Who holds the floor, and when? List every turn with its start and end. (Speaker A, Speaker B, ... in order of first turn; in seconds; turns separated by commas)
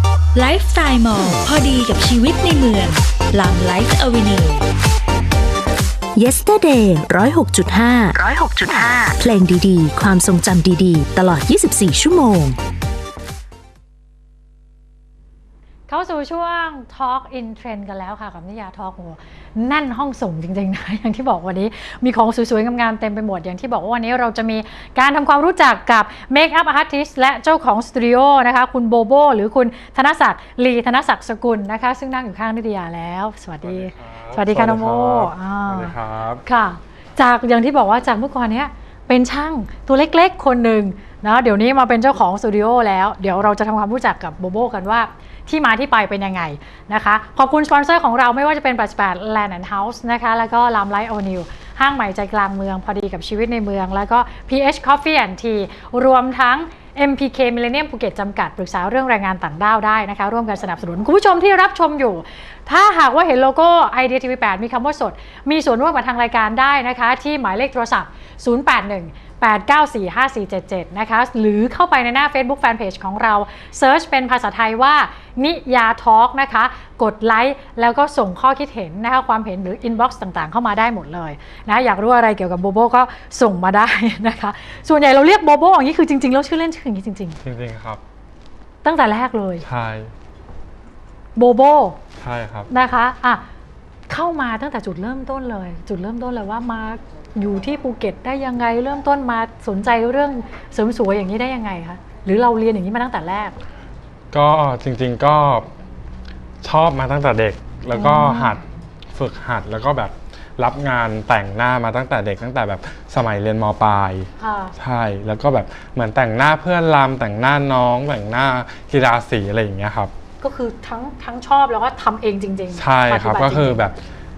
Speaker A: 0.3-4.7, Speaker B: 6.2-12.6, Speaker C: 15.9-35.9, Speaker D: 33.6-36.4, Speaker C: 36.5-87.4, Speaker D: 87.4-88.0, Speaker C: 88.8-89.6, Speaker D: 89.6-90.1, Speaker C: 91.4-92.0, Speaker D: 92.2-92.7, Speaker C: 92.7-93.4, Speaker C: 94.1-103.6, Speaker D: 104.3-105.7, Speaker D: 106.6-120.1, Speaker C: 107.9-108.6, Speaker C: 114.4-114.8, Speaker C: 120.4-123.8, Speaker D: 122.8-124.0